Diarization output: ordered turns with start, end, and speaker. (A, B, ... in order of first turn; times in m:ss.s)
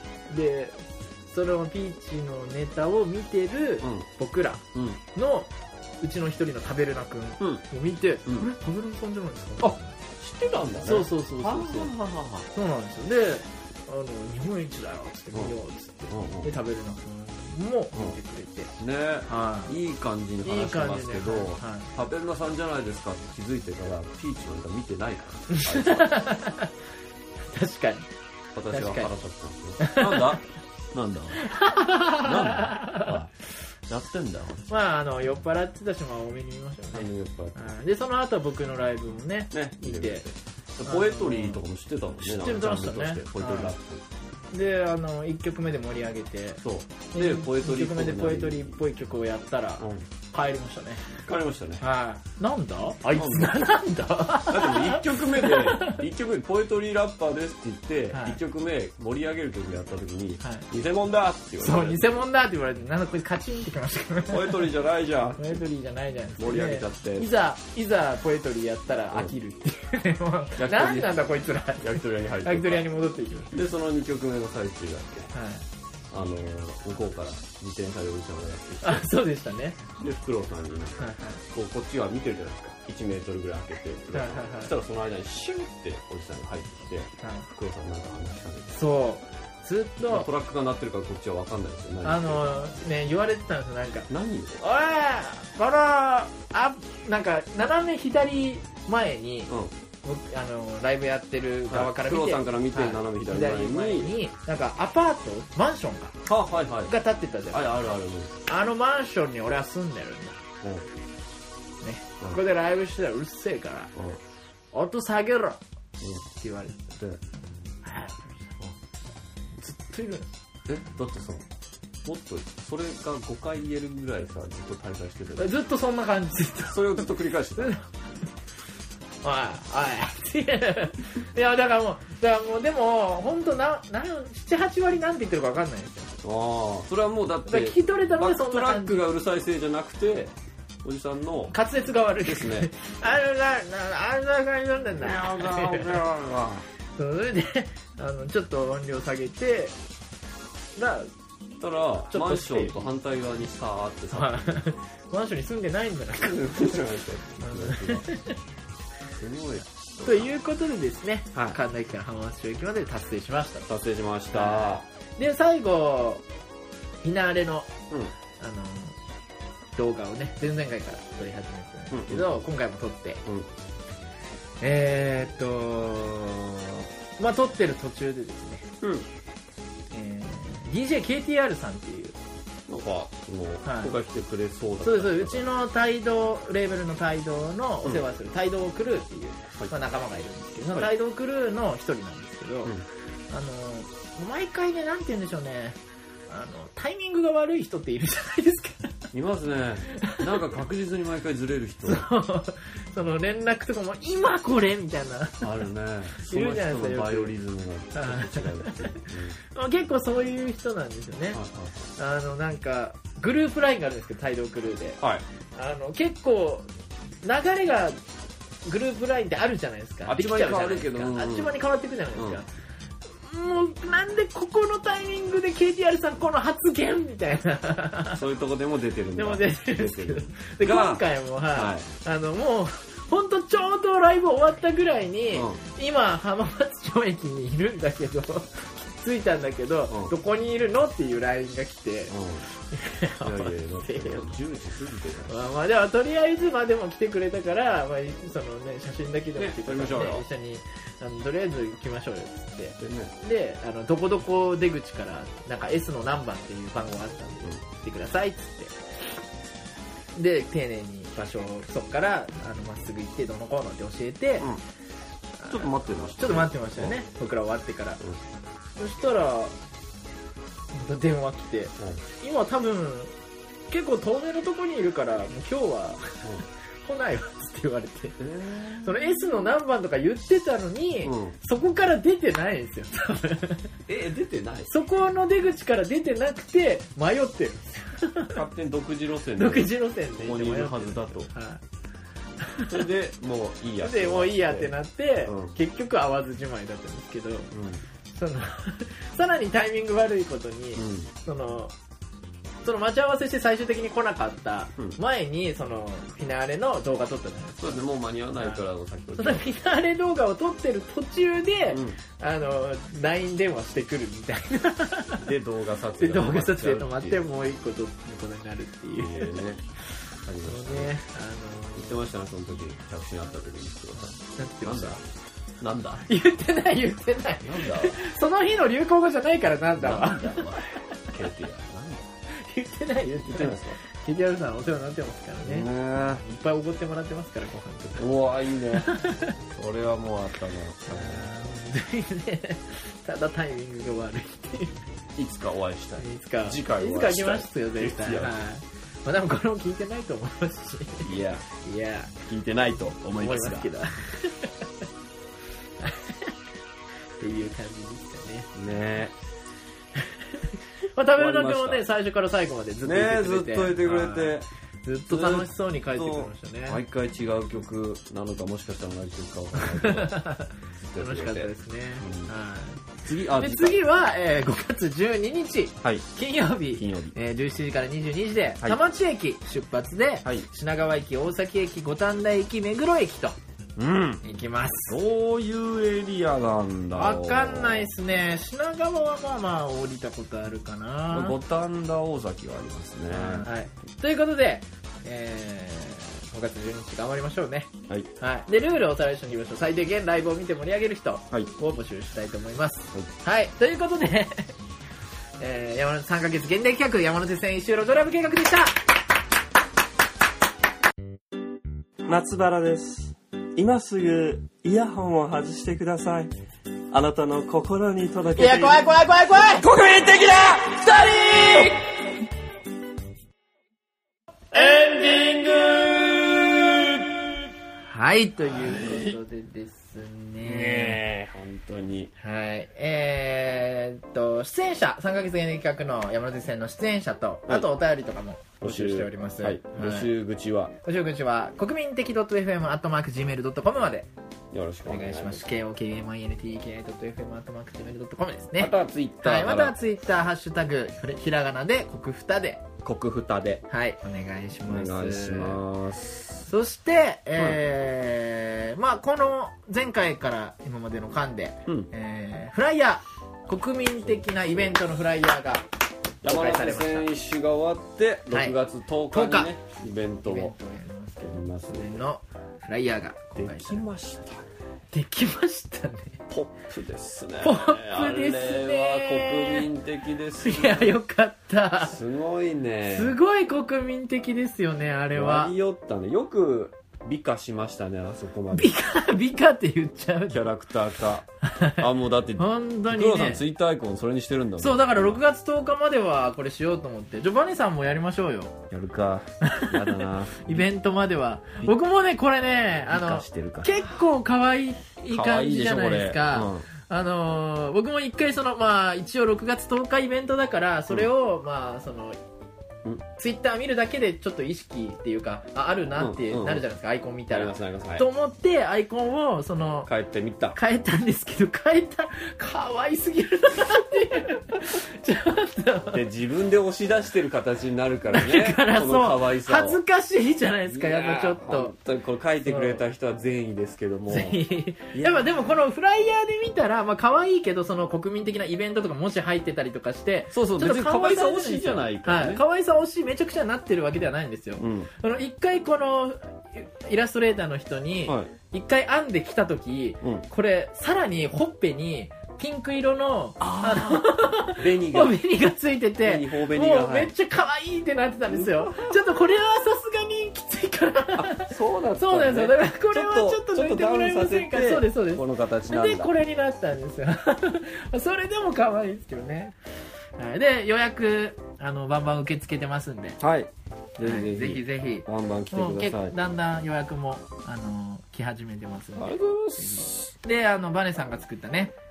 0:00.3-0:10.0 A
0:03.8-0:04.1 B
0:04.7-0:05.0 B
0:09.6-0:12.5 B
0:10.8-0:11.9 A
0:12.5-0:18.7 A
0:16.1-0:16.5 B
0:17.9-0:18.2 B
0:18.8-0:26.2 B
0:19.3-0:19.7 A
0:20.4-0:21.9 A
0:25.5-0:26.8 A
0:27.4-0:28.1 A
0:28.6-0:31.5 B
0:28.7-0:29.1 A
0:29.8-0:30.4 A
0:31.4-0:33.2 A
0:32.2-0:33.3 B
0:33.9-0:34.7 B
0:34.7-0:40.3 A
0:36.9-0:37.7 B
0:39.5-0:44.0 B
0:40.8-0:41.6 A
0:42.2-0:43.7 A
0:44.5-0:51.2 A
0:46.6-0:48.8 B
0:49.8-0:50.1 B
0:51.2-0:51.8 B
0:51.8-0:56.0 A
0:53.1-0:53.5 B
0:54.5-1:02.2 B
0:58.1-0:58.4 A
1:00.4-1:00.7 A
1:01.6-1:04.7 A
1:04.3-1:05.6 B
1:05.4-1:13.6 A
1:06.4-1:07.3 B
1:10.6-1:11.2 B
1:11.8-1:12.9 B
1:13.5-1:15.3 B
1:15.3-1:15.7 A
1:16.1-1:19.1 B
1:18.8-1:19.8 A
1:20.0-1:28.8 B
1:21.0-1:21.4 A
1:24.1-1:24.7 A
1:27.2-1:27.5 A
1:28.7-1:30.3 A
1:30.0-1:32.6 B
1:32.0-1:34.1 A
1:34.1-1:34.6 B
1:34.6-1:39.5 A
1:40.0-1:46.2 A
1:41.7-1:44.1 B
1:46.3-1:46.9 B
1:46.9-1:47.9 A
1:47.5-1:48.4 B
1:48.5-1:50.4 A
1:50.6-1:50.9 B
1:51.8-1:53.9 A
1:54.0-1:54.2 B
1:54.7-1:55.6 A
1:56.3-1:57.0 A
1:57.8-1:58.6 A
1:59.6-2:00.3 A
2:00.7-2:01.5 B
2:02.0-2:05.6 B
2:05.4-2:07.9 A
2:06.7-2:07.8 B
2:09.2-2:16.2 A
2:16.2-2:21.6 B
2:17.5-2:19.0 A
2:21.5-2:26.0 A
2:22.2-2:22.7 B
2:24.9-2:26.7 B
2:27.0-2:29.8 A
2:30.8-2:31.1 A
2:31.6-2:34.8 B
2:32.1-2:32.9 A
2:34.1-2:36.8 A
2:36.2-2:38.1 B
2:37.4-2:38.4 A
2:39.1-2:40.3 B
2:40.0-2:43.7 A
2:41.3-2:41.6 B
2:43.7-2:44.9 B
2:44.3-2:46.2 A
2:47.0-2:47.7 A
2:48.4-2:49.0 A
2:49.8-2:53.2 A
2:51.9-2:52.4 B
2:54.6-2:58.7 A
2:58.8-2:59.1 B
2:59.9-3:02.2 A
3:02.7-3:05.5 B
3:03.6-3:04.0 A
3:04.8-3:12.7 A
3:13.3-3:19.0 A
3:19.1-3:22.1 B
3:20.0-3:20.2 A
3:21.9-3:27.3 A
3:25.4-3:29.4 B
3:27.9-3:31.4 A
3:31.3-3:31.9 B
3:32.0-3:35.0 A
3:35.6-3:36.7 A
3:37.2-3:38.0 A
3:38.7-3:42.5 A
3:40.1-3:41.6 B
3:42.2-3:42.4 B
3:43.1-3:48.2 A
3:48.1-3:51.9 B
3:49.2-4:04.4 A
3:55.3-3:55.6 B
4:02.1-4:02.4 B
4:03.2-4:05.3 B
4:05.3-4:18.8 A
4:09.4-4:10.2 B
4:12.8-4:13.1 B
4:20.2-4:24.5 A
4:25.4-4:28.0 A
4:25.5-4:27.0 B
4:28.8-4:29.6 A
4:30.7-4:33.1 A
4:33.7-4:36.3 A
4:36.8-4:38.2 A
4:38.2-4:39.4 B
4:38.8-4:43.8 A
4:41.0-4:41.4 B
4:43.9-4:44.8 B
4:44.7-4:48.4 A
4:48.4-4:51.3 B
4:49.4-4:51.6 A
4:52.4-4:52.8 A
4:52.7-4:54.7 B
4:53.8-4:57.5 A
4:55.3-4:55.5 B
4:57.5-4:57.8 B
4:58.1-5:01.7 A
5:00.8-5:01.1 B
5:02.6-5:07.8 A
5:07.6-5:09.5 B
5:08.4-5:08.6 A
5:09.2-5:15.3 A
5:11.7-5:12.0 B
5:15.2-5:17.2 B
5:16.0-5:19.4 A
5:18.9-5:19.6 B
5:20.2-5:21.0 B
5:20.4-5:22.0 A
5:21.8-5:25.0 B
5:24.0-5:25.0 A
5:25.6-5:26.1 B
5:26.0-5:30.5 A
5:27.4-5:28.1 B
5:29.8-5:32.1 B
5:32.3-5:38.1 A
5:33.2-5:33.8 B
5:35.4-5:36.2 B
5:38.0-5:41.3 B
5:38.8-5:39.4 A
5:40.9-5:44.8 A
5:45.2-5:48.4 B
5:46.0-5:52.2 A
5:51.0-5:51.4 B
5:52.3-5:53.7 B
5:53.2-5:54.7 A
5:55.8-5:56.3 A
5:57.2-5:58.6 A
5:58.6-5:59.2 B
6:00.0-6:06.8 A
6:01.1-6:01.8 B
6:02.8-6:04.5 B
6:05.1-6:10.2 B
6:09.6-6:23.4 A
6:10.8-6:12.3 B
6:13.0-6:13.8 B
6:16.7-6:17.2 B
6:23.8-6:24.2 B
6:24.2-6:25.0 A
6:24.9-6:27.9 B
6:27.0-6:31.4 A
6:31.1-6:33.5 B
6:33.1-6:44.6 A
6:45.4-6:48.9 A
6:52.1-6:56.3 C
6:56.9-6:59.0 C
6:58.4-6:59.8 A
6:59.8-7:00.1 C
6:59.8-7:00.3 B
7:00.5-7:02.0 A
7:04.6-7:05.1 C
7:04.9-7:07.2 B
7:07.9-7:11.0 A
7:08.4-7:09.2 B
7:10.4-7:12.1 B
7:12.2-7:20.1 A
7:18.6-7:20.8 B
7:20.8-7:24.1 A
7:24.5-7:25.5 B
7:24.9-7:32.6 A
7:28.6-7:29.8 B
7:32.8-7:33.6 B
7:33.7-7:35.6 A
7:34.6-7:36.5 B
7:36.5-7:45.7 A
7:44.0-7:44.8 B
7:46.2-7:50.5 B
7:46.2-7:47.1 A
7:48.3-7:48.6 A
7:49.1-7:49.6 A
7:50.2-7:53.9 A
7:51.2-7:52.0 B
7:53.4-7:54.5 B
7:54.9-7:56.2 A
7:56.3-8:01.0 B
7:57.4-7:59.7 A
8:00.4-8:02.0 A
8:01.8-8:03.2 B
8:02.9-8:05.5 A
8:05.1-8:08.7 B
8:08.5-8:10.5 A
8:10.3-8:15.2 B
8:11.4-8:11.8 A
8:12.4-8:13.4 A
8:14.6-8:18.6 A
8:18.7-8:20.7 B
8:19.4-8:32.2 A
8:22.9-8:23.8 B
8:25.1-8:26.7 B
8:33.2-8:39.9 A
8:36.0-8:36.6 B
8:37.3-8:38.1 B
8:39.9-8:40.6 B
8:40.5-8:46.0 A
8:45.9-8:49.8 B
8:48.1-8:51.8 A
8:50.7-8:54.4 B
8:52.5-8:52.8 A
8:54.1-9:29.6 A
8:54.9-8:55.3 B
9:00.3-9:02.4 B
9:04.6-9:04.9 B
9:08.0-9:08.3 B
9:13.4-9:15.2 B
9:16.0-9:17.1 B
9:18.3-9:19.0 B
9:21.1-9:26.1 B
9:30.2-9:33.2 A
9:33.2-9:36.1 B
9:34.0-9:41.8 A
9:39.0-9:40.1 B